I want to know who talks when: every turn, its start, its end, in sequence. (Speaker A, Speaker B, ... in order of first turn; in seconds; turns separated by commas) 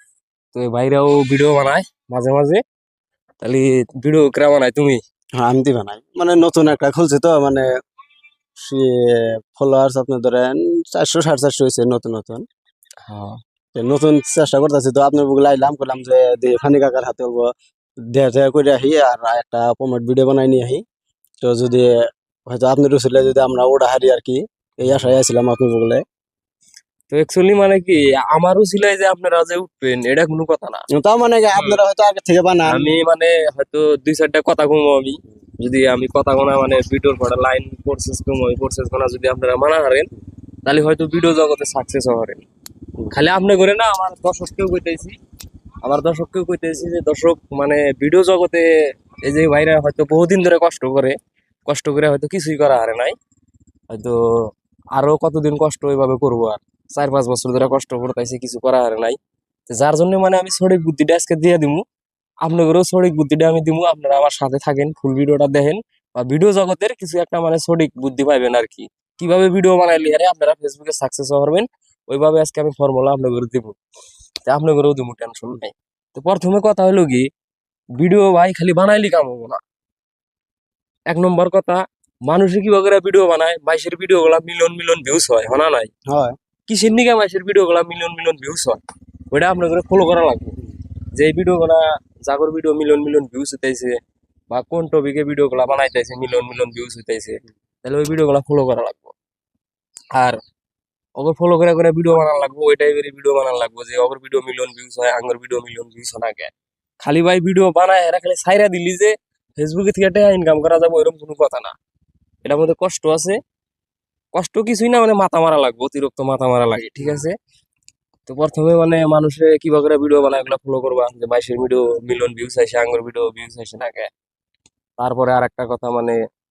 Speaker A: 0.5-2.6, Speaker A: 3.4-5.0, Speaker B: 5.4-7.7, Speaker B: 8.6-12.4, Speaker A: 13.1-13.4, Speaker B: 13.7-17.5, Speaker B: 18.1-20.8, Speaker B: 21.4-22.0, Speaker B: 22.5-26.0, Speaker A: 24.9-25.1, Speaker A: 27.1-30.8, Speaker B: 30.9-32.9, Speaker A: 31.5-31.8, Speaker A: 32.6-40.1, Speaker A: 40.6-42.4, Speaker A: 43.1-45.1, Speaker A: 45.8-48.6, Speaker A: 49.2-51.1, Speaker A: 51.7-53.1, Speaker A: 53.9-59.2, Speaker A: 59.7-61.8, Speaker A: 62.4-73.8, Speaker A: 74.5-77.3, Speaker A: 78.0-79.6, Speaker A: 81.1-85.9, Speaker B: 86.1-86.3, Speaker A: 86.7-88.8, Speaker A: 89.3-90.5, Speaker A: 91.1-94.0, Speaker A: 94.5-99.1, Speaker A: 100.1-100.4, Speaker A: 101.2-111.8, Speaker A: 112.4-113.4, Speaker A: 114.3-117.3, Speaker A: 118.3-124.1, Speaker A: 125.0-126.2